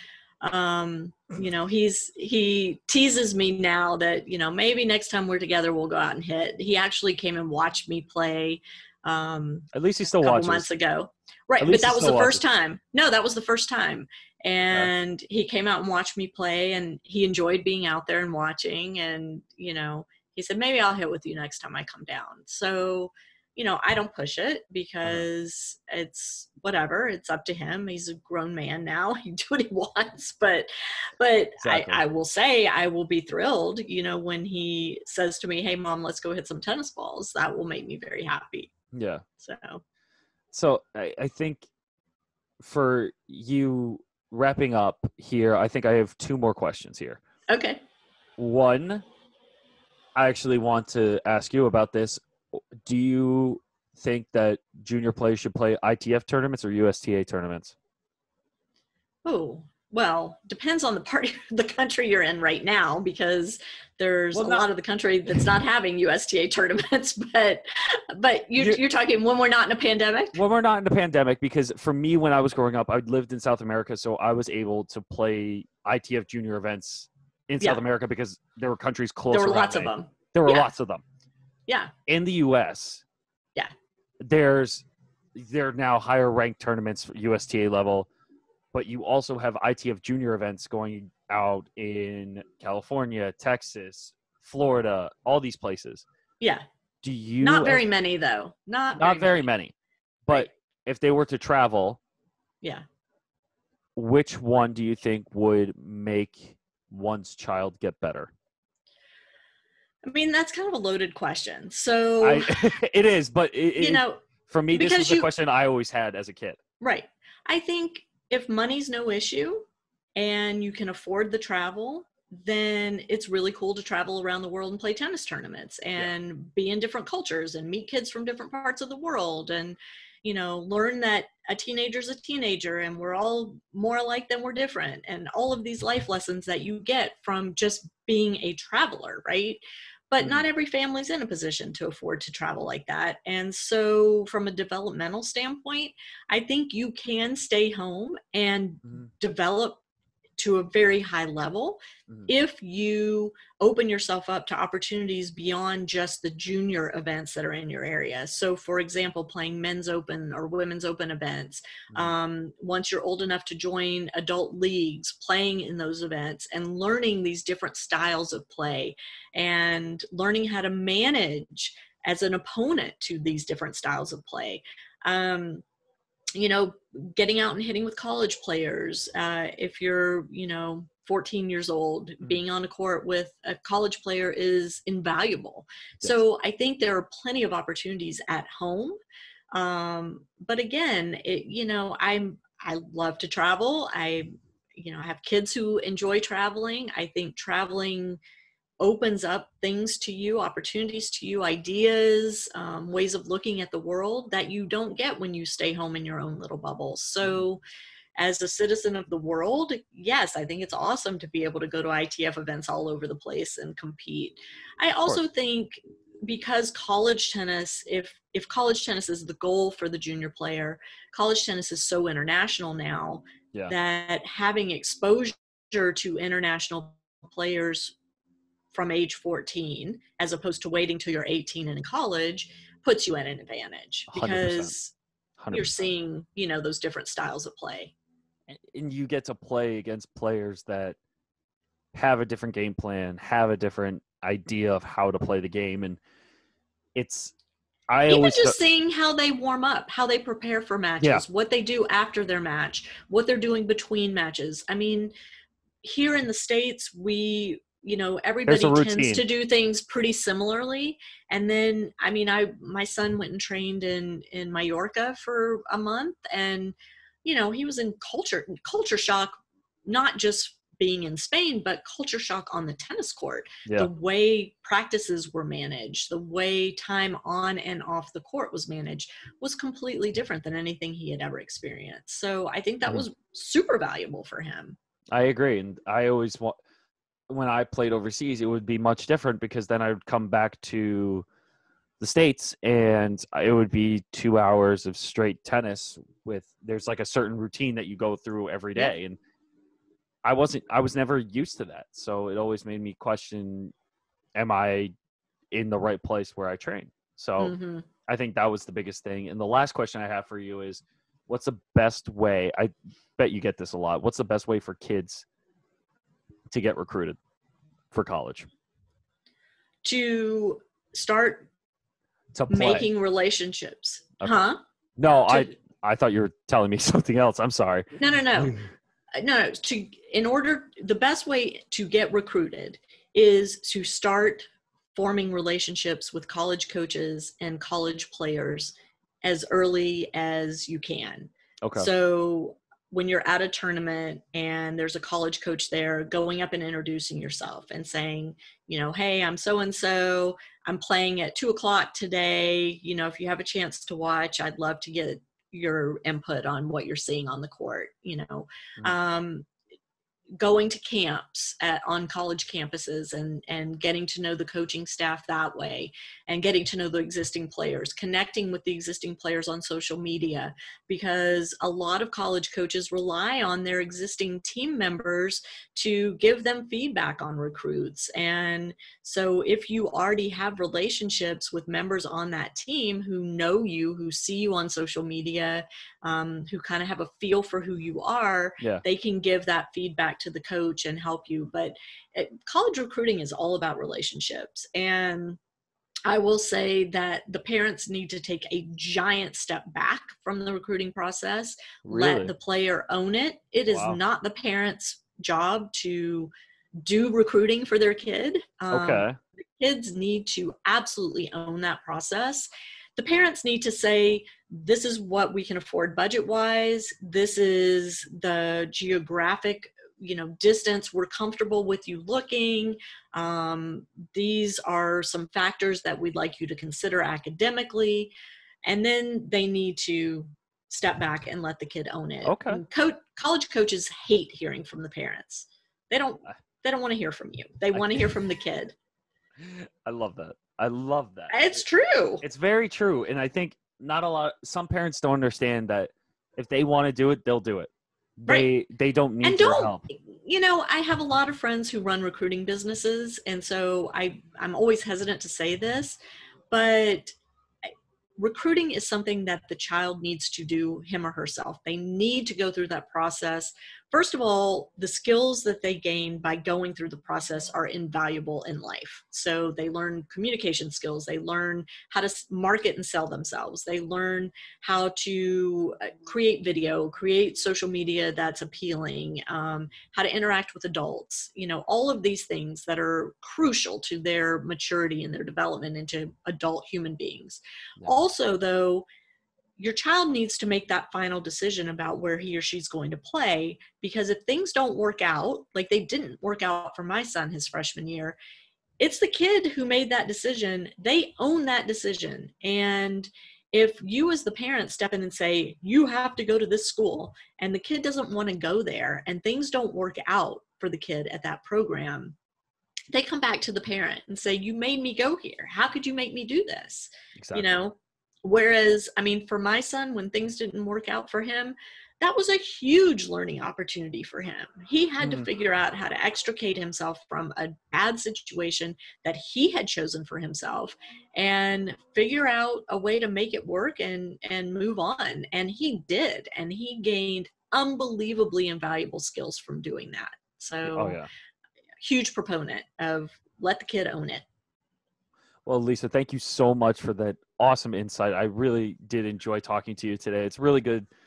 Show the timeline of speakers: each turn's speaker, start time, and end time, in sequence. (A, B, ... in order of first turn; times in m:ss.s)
0:00.4-0:09.7 A
0:09.7-0:10.7 B
0:10.2-0:38.7 A
0:11.6-0:12.4 B
0:31.6-0:32.0 B
0:38.9-0:39.2 B
0:39.4-0:39.8 A
0:40.5-0:41.7 B
0:42.6-0:47.2 B
0:47.5-0:47.8 A
0:48.4-0:49.0 B
0:50.2-0:57.7 B
0:59.2-1:10.4 A
1:04.3-1:04.6 B
1:10.3-1:21.0 B
1:19.3-1:20.7 A
1:21.7-1:21.9 A
1:22.1-1:23.0 B
1:24.2-1:28.1 B
1:28.7-1:36.0 B
1:36.4-1:36.6 A
1:37.0-1:37.8 B
1:37.4-1:39.4 A
1:39.0-1:39.7 B
1:40.3-1:42.0 B
1:44.0-1:48.3 B
1:50.0-1:52.7 A
1:52.2-1:56.6 B
1:53.8-1:54.2 A
1:54.7-1:55.3 A
1:56.8-2:29.8 A
2:20.2-2:20.4 B
2:30.4-2:55.6 A
2:56.4-3:09.0 A
3:09.5-3:18.2 A
3:18.8-3:27.6 A
3:28.2-3:47.9 A
3:48.7-3:54.9 A
3:54.1-3:54.7 B
3:55.4-3:55.8 B
3:55.5-3:57.9 A
3:58.5-4:01.0 B
4:01.9-4:06.0 B
4:07.0-4:07.3 B
4:07.9-4:08.6 B
4:08.0-4:15.1 A
4:15.8-4:44.8 A
4:18.5-4:19.2 B
4:45.1-4:46.6 B
4:47.3-4:51.2 B
4:52.0-4:59.2 B
5:00.2-5:03.7 B
5:04.4-5:04.9 B
5:05.5-5:07.6 B
5:07.4-5:07.9 A
5:08.1-5:15.2 B
5:16.5-5:17.2 B
5:17.9-5:18.5 B
5:19.8-5:21.5 A
5:22.3-5:22.9 B
5:22.5-5:24.6 A
5:24.2-5:28.7 B
5:27.9-5:28.6 A
5:29.1-5:59.5 A
5:41.6-5:41.9 B
6:00.4-6:35.4 A
6:36.0-7:18.7 A
6:41.8-6:42.3 B
6:43.7-6:44.0 B
6:48.7-6:49.2 B
7:12.2-7:12.6 B
7:17.7-7:18.1 B
7:19.4-7:21.6 B
7:21.3-7:22.2 A
7:22.2-7:29.8 B
7:29.2-7:36.0 A
7:36.5-7:37.2 A
7:37.7-8:08.8 A
8:09.6-8:18.2 A
8:18.8-8:32.2 A
8:32.9-9:01.0 A
8:37.2-8:37.5 B
8:45.0-8:45.3 B
9:00.7-9:01.1 B
9:01.8-9:04.2 A
9:05.4-9:10.9 B